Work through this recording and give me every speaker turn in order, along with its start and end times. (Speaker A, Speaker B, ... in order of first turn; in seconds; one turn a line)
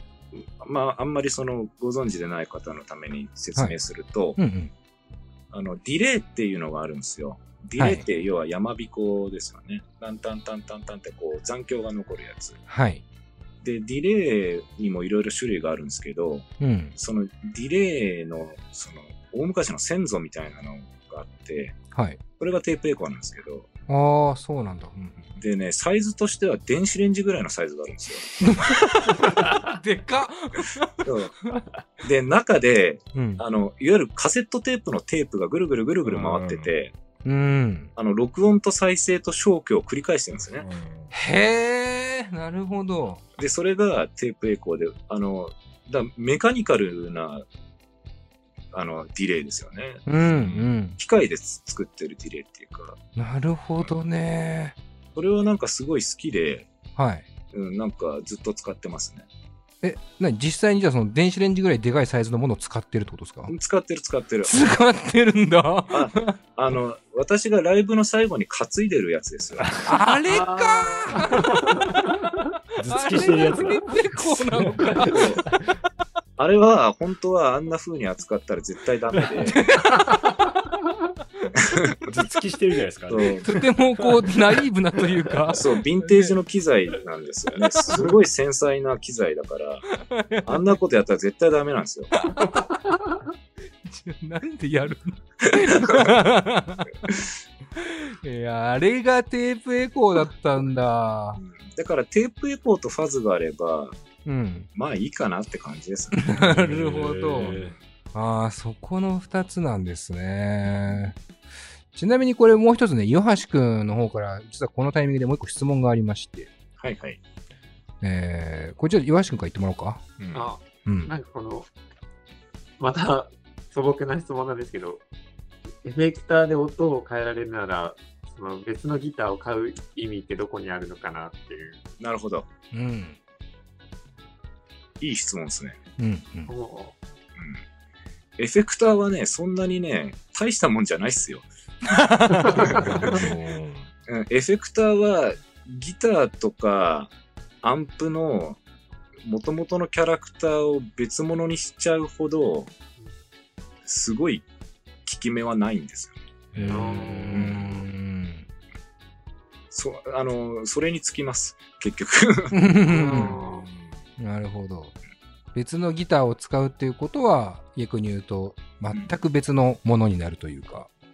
Speaker A: 0.3-4.4
Speaker B: 4.4-4.7
Speaker A: 5.5-12.6
Speaker B: 7.8-8.0
Speaker B: 12.7-13.0
Speaker A: 13.6-21.8
Speaker B: 16.6-16.9
Speaker B: 21.9-22.2
Speaker A: 22.4-23.7
Speaker B: 23.9-25.3
Speaker A: 25.4-28.3
Speaker B: 28.4-31.6
Speaker A: 31.0-31.3
Speaker A: 32.0-36.9
Speaker B: 33.1-33.4
Speaker C: 36.0-36.7
Speaker B: 37.2-37.9
Speaker A: 38.0-40.7
Speaker C: 40.5-41.1
Speaker B: 41.1-43.2
Speaker A: 43.4-47.5
Speaker A: 48.7-50.0
Speaker B: 50.1-51.0
Speaker C: 50.3-50.7
Speaker A: 51.0-53.0
Speaker B: 53.1-54.8
Speaker A: 55.1-56.7
Speaker B: 57.0-57.2
Speaker A: 57.5-59.3
Speaker B: 59.8-63.5
Speaker A: 63.5-64.7
Speaker B: 64.4-66.4
Speaker A: 65.9-69.8
Speaker C: 69.6-69.9
Speaker B: 69.8-72.0
Speaker D: 70.3-72.1
Speaker C: 72.8-75.6
Speaker B: 72.8-75.3
Speaker A: 75.1-75.4
Speaker A: 76.4-79.6
Speaker B: 79.4-80.3
Speaker A: 81.5-82.0
Speaker C: 82.0-84.5
Speaker A: 83.1-83.5
Speaker B: 83.4-86.3
Speaker A: 85.5-89.8
Speaker B: 89.9-90.7
Speaker A: 90.4-92.1
Speaker B: 92.2-92.7
Speaker B: 93.8-101.4
Speaker A: 95.5-96.1
Speaker A: 101.4-103.9
Speaker B: 104.2-104.7
Speaker A: 104.7-106.4
Speaker B: 106.2-107.6
Speaker C: 106.4-107.8
Speaker B: 108.1-111.2
Speaker B: 111.9-116.5
Speaker A: 116.8-117.2
Speaker B: 118.0-120.0
Speaker C: 120.2-120.5
Speaker D: 120.3-121.7
Speaker B: 120.8-121.1
Speaker D: 122.8-125.0
Speaker D: 125.8-131.8
Speaker A: 132.0-132.4
Speaker B: 132.7-133.2
Speaker A: 135.0-135.8
Speaker B: 136.0-136.5
Speaker D: 136.5-137.0
Speaker A: 137.4-137.6
Speaker A: 138.4-141.5
Speaker B: 141.8-143.3
Speaker C: 142.4-143.9
Speaker D: 142.4-143.2
Speaker A: 144.1-148.6
Speaker A: 149.2-152.7
Speaker A: 153.8-154.4
Speaker A: 155.1-156.2
Speaker C: 156.5-157.6
Speaker B: 156.5-158.4
Speaker D: 156.7-157.6
Speaker A: 159.7-162.6
Speaker B: 162.5-163.4
Speaker D: 162.9-163.7
Speaker C: 163.1-164.0
Speaker B: 164.2-164.9
Speaker B: 165.5-170.9